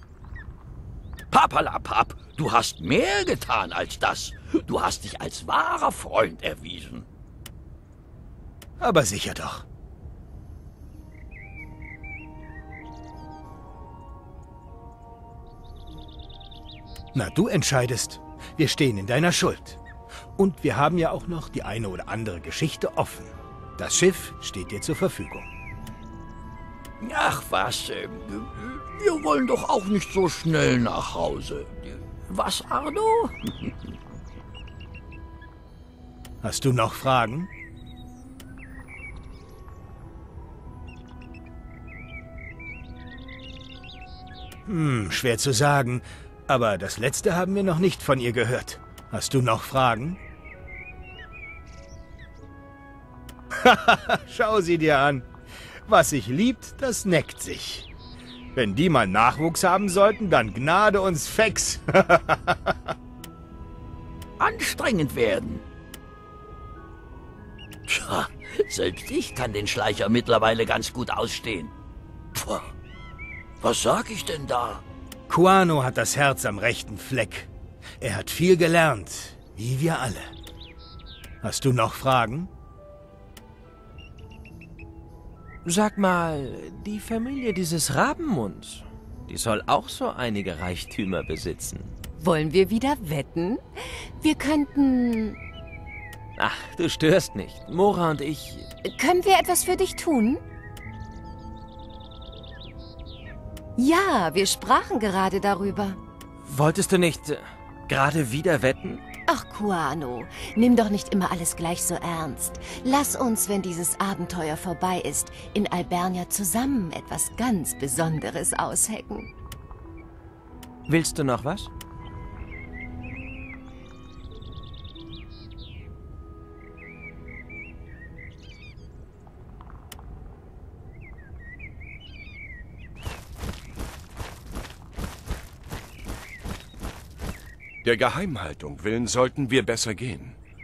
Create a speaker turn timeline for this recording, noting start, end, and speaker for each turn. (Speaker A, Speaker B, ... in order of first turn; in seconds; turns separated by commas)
Speaker A: 1.3-7.1, Speaker B: 8.8-9.6, Speaker B: 17.1-19.8, Speaker B: 20.4-25.5, Speaker A: 27.0-33.7, Speaker B: 36.4-37.5, Speaker B: 44.7-50.2, Speaker B: 53.6-55.3, Speaker B: 55.9-57.9, Speaker B: 58.5-62.9, Speaker A: 64.4-65.6, Speaker A: 67.9-71.7, Speaker A: 72.3-72.7, Speaker A: 73.6-74.8, Speaker B: 75.3-77.5, Speaker B: 78.0-80.3, Speaker B: 81.4-82.5, Speaker C: 85.7-92.0, Speaker D: 92.2-95.4, Speaker C: 96.4-98.7, Speaker D: 98.8-100.4, Speaker D: 103.8-106.0, Speaker C: 106.5-109.0, Speaker D: 109.3-119.3, Speaker C: 120.9-121.7, Speaker E: 137.8-140.4